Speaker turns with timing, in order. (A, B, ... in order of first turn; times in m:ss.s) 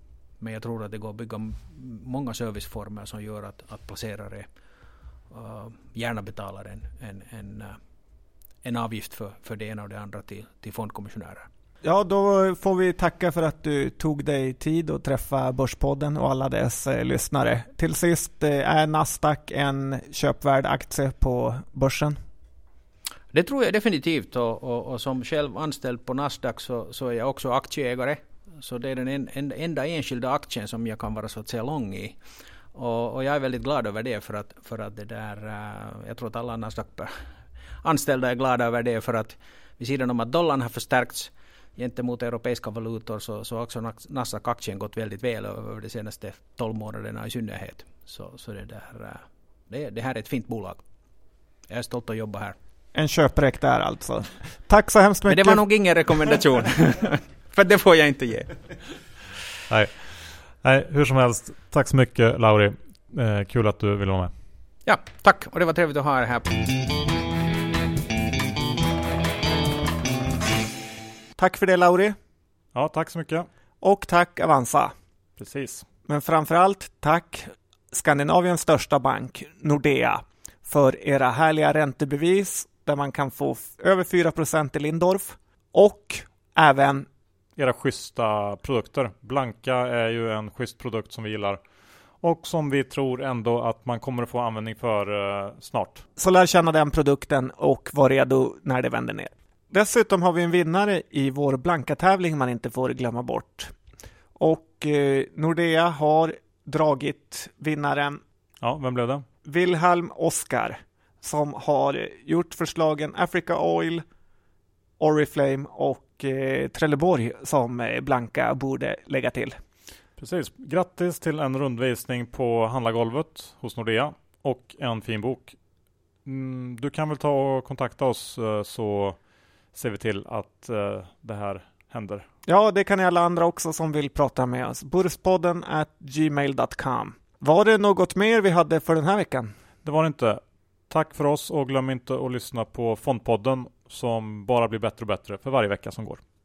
0:00.4-0:04.5 A
0:05.3-0:07.8 A
0:08.6-0:11.5 A
0:11.8-0:22.2 B
0:23.3-0:32.2 A
0:32.7-0:37.1 A
0:37.8-0:50.8 A
0:51.7-0:52.6 A
0:52.9-0:55.6 B
0:55.3-0:58.6 A
0:59.7-1:04.3 C
1:04.8-1:06.6 A
1:11.4-1:12.2 B
1:12.7-1:13.5 C
1:13.8-1:14.9 B
1:15.4-1:15.8 C
1:16.0-1:27.1 B
1:27.6-1:31.6 C
1:32.2-1:36.0 C
1:36.2-1:43.7 B
1:44.4-1:48.2 B
1:48.6-1:49.2 C
1:49.4-1:54.0 B
1:55.0-1:59.6 B
2:00.2-2:05.5 C
2:06.2-2:09.2 C
2:09.7-2:12.2 C
2:12.5-2:19.5 B
2:19.8-2:26.2 C